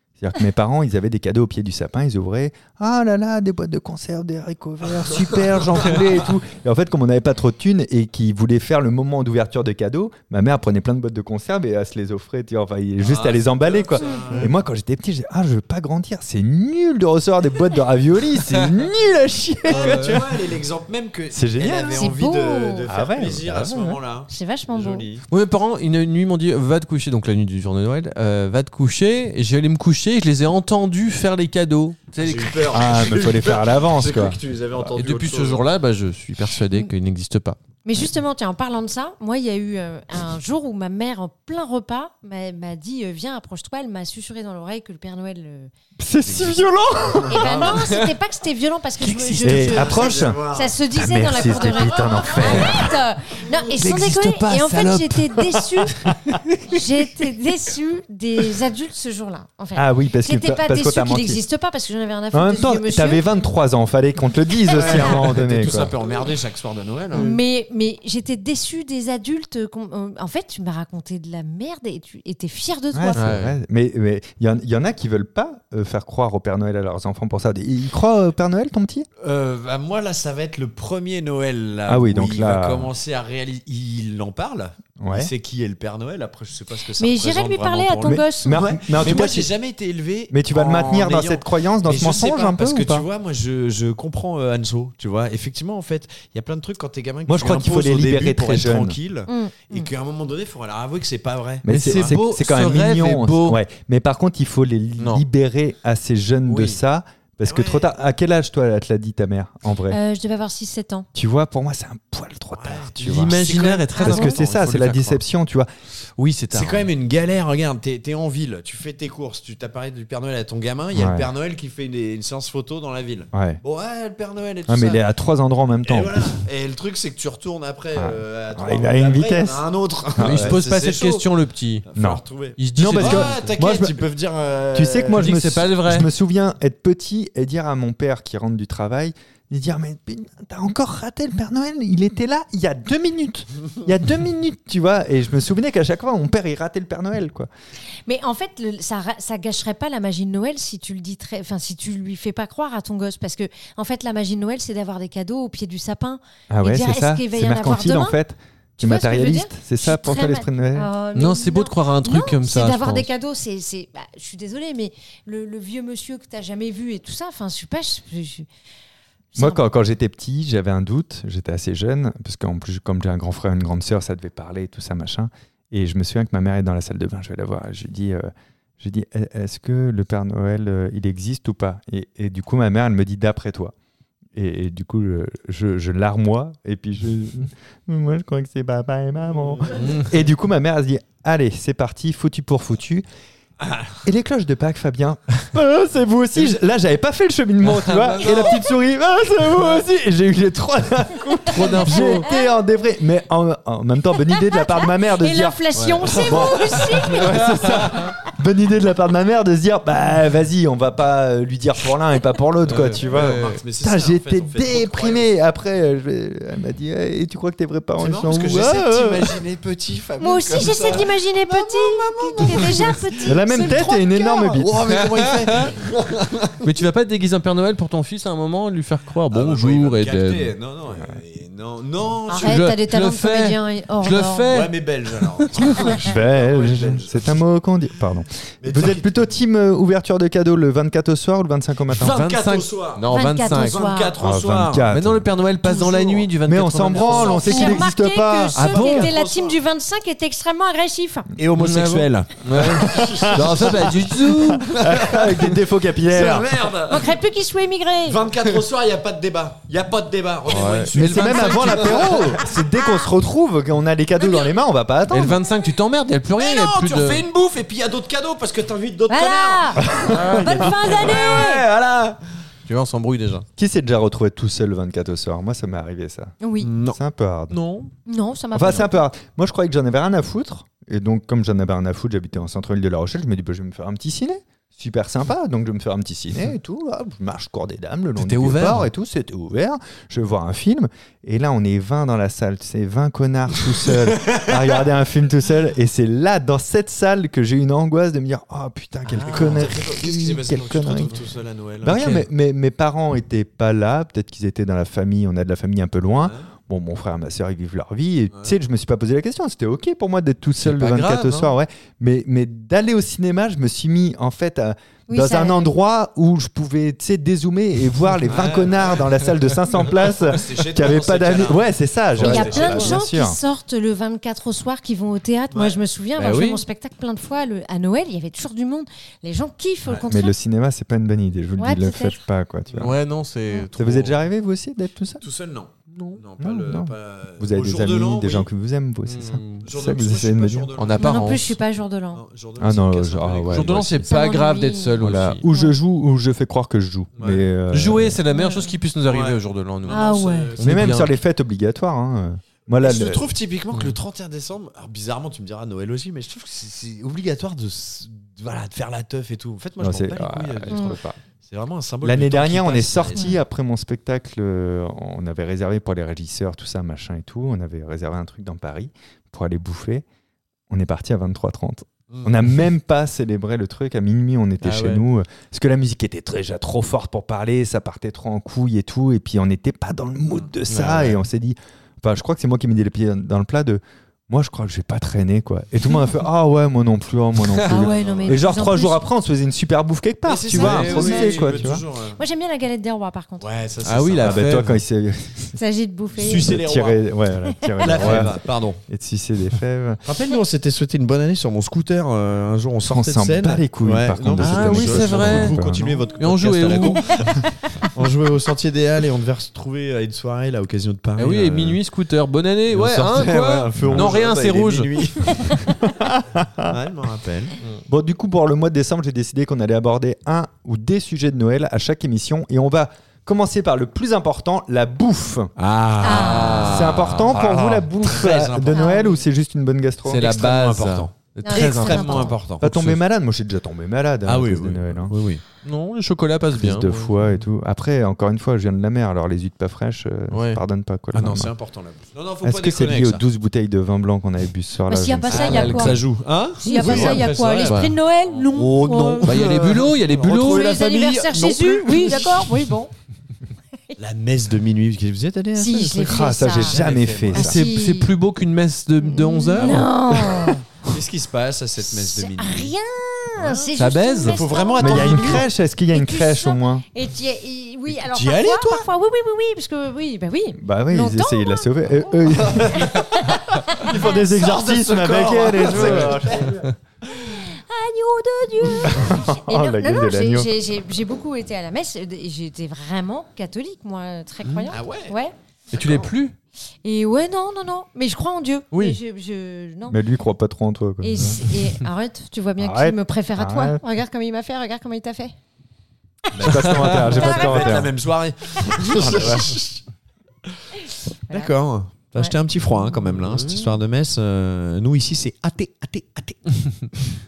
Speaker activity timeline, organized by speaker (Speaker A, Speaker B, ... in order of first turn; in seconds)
Speaker A: 0.2-20.4, 21.3-22.2, 22.9-24.0, 32.7-34.4, 46.0-47.8, 49.3-53.0, 53.8-56.4, 59.7-61.4, 62.3-66.0, 72.9-79.1, 81.8-82.9, 85.0-85.3, 88.0-89.5, 90.3-93.1, 97.2-99.0, 101.6-110.0, 111.1-113.4, 114.0-115.7, 120.9-121.3, 123.3-123.6, 124.7-126.3, 127.9-129.6, 130.2-130.6, 131.9-132.2, 132.7-134.0, 134.7-147.5, 156.5-160.9, 169.4-183.7, 184.3-193.0, 194.0-219.4, 223.2-224.8, 236.0-242.2, 244.2-245.3, 246.4-248.6, 252.8-256.7, 260.9-265.4, 269.8-270.7, 273.6-276.3, 276.9-277.6, 278.5-301.2, 301.8-323.4, 330.1-333.0, 333.8-335.2, 336.4-340.7, 342.6-344.1, 345.0-348.2, 350.6-353.3, 359.8-361.2, 362.0-370.0, 370.7-391.8, 394.2-395.6, 396.2-400.0, 402.8-406.0, 413.8-414.1, 415.7-416.7, 417.9-425.5, 426.6-430.3, 432.6-435.1, 436.5-441.5, 442.4-445.9, 446.7-447.2, 456.0-457.6, 464.8-466.9, 470.6-473.1, 473.8-476.6, 478.9-480.5, 489.9-491.4, 492.6-493.8, 496.4-497.9, 498.8-499.6
Speaker B: 13.0-14.5, 19.7-25.2, 32.2-35.6, 46.2-47.9, 49.3-52.2, 64.7-67.4, 79.2-102.1, 107.4-107.9, 112.5-114.4, 116.5-125.0, 125.8-131.2, 131.9-135.3, 205.8-207.3, 212.9-215.3, 218.0-223.9, 224.5-226.6, 229.3-232.6, 234.5-237.4, 238.6-239.3, 241.9-244.9, 245.6-246.3, 246.9-247.8, 248.5-249.6, 251.4-257.2, 258.1-262.5, 266.4-272.2, 276.6-277.0, 299.1-302.2, 306.2-306.4, 318.3-319.3, 319.8-323.0, 325.5-325.8, 335.2-338.5, 339.6-341.6, 342.1-344.0, 347.2-347.4, 349.1-351.0, 352.8-363.3, 372.1-372.5, 374.7-375.0, 387.7-388.4, 390.2-392.2, 393.4-394.6, 396.1-397.0, 397.8-398.8, 400.0-411.8, 412.7-415.6, 416.6-417.6, 425.6-429.1, 430.1-432.7, 434.2-435.4, 441.1-443.2, 445.3-452.5, 454.0-457.5, 459.6-459.8, 460.9-462.7, 464.2-465.4, 467.9-468.8, 472.4-473.0, 473.8-476.7, 484.7-485.1, 496.3-499.8, 501.3-506.9
Speaker C: 14.0-14.2, 21.9-22.9, 24.3-25.0, 37.8-45.7, 47.3-56.0, 56.7-63.2, 67.1-73.3, 87.0-88.6, 99.3-99.9, 109.9-111.1, 148.1-158.2, 158.8-168.5, 169.3-169.6, 204.5-207.4, 220.2-224.6, 232.3-234.5, 243.1-244.1, 247.1-251.3, 256.9-258.2, 269.1-271.6, 276.4-276.7, 278.1-279.0, 315.1-315.7, 322.2-330.3, 331.6-332.2, 341.0-342.2, 344.1-345.7, 348.3-348.7, 349.9-350.5, 360.7-361.0, 387.7-389.0, 390.5-393.5, 395.5-396.5, 426.0-426.8, 428.7-429.2, 431.4-432.4, 444.9-446.0, 446.6-449.5, 450.2-452.9, 455.6-456.8, 457.3-458.1, 459.0-460.6, 461.8-471.7, 472.7-474.0, 477.1-485.3, 486.8-490.0, 491.0-495.3, 496.3-497.7
Speaker D: 19.7-20.2, 25.3-32.7, 35.0-37.6, 73.1-73.6, 101.7-103.6, 113.0-115.2, 116.2-116.9, 130.2-131.8, 132.6-133.4, 135.1-136.1, 161.1-163.1, 197.7-198.6, 201.4-202.3, 207.4-208.0, 212.7-213.6, 224.9-225.7, 226.6-230.5, 232.4-235.7, 242.0-243.8, 244.9-247.5, 248.5-249.1, 251.6-254.7, 260.5-262.2, 265.1-267.2, 272.6-273.4, 277.5-277.9, 288.2-288.9, 310.6-311.5, 326.2-326.6, 332.8-334.2, 335.9-336.2, 339.1-339.7, 340.8-341.5, 343.5-345.4, 347.7-351.1, 353.7-354.0, 380.7-381.2, 393.8-394.8, 404.4-405.6, 406.2-407.2, 411.2-415.6, 426.1-427.3, 430.1-433.0, 435.6-437.4, 440.3-440.6, 445.4-446.0, 446.8-447.9, 449.2-450.8, 457.3-460.5, 463.8-464.4, 485.7-486.3, 488.7-489.0, 503.2-503.7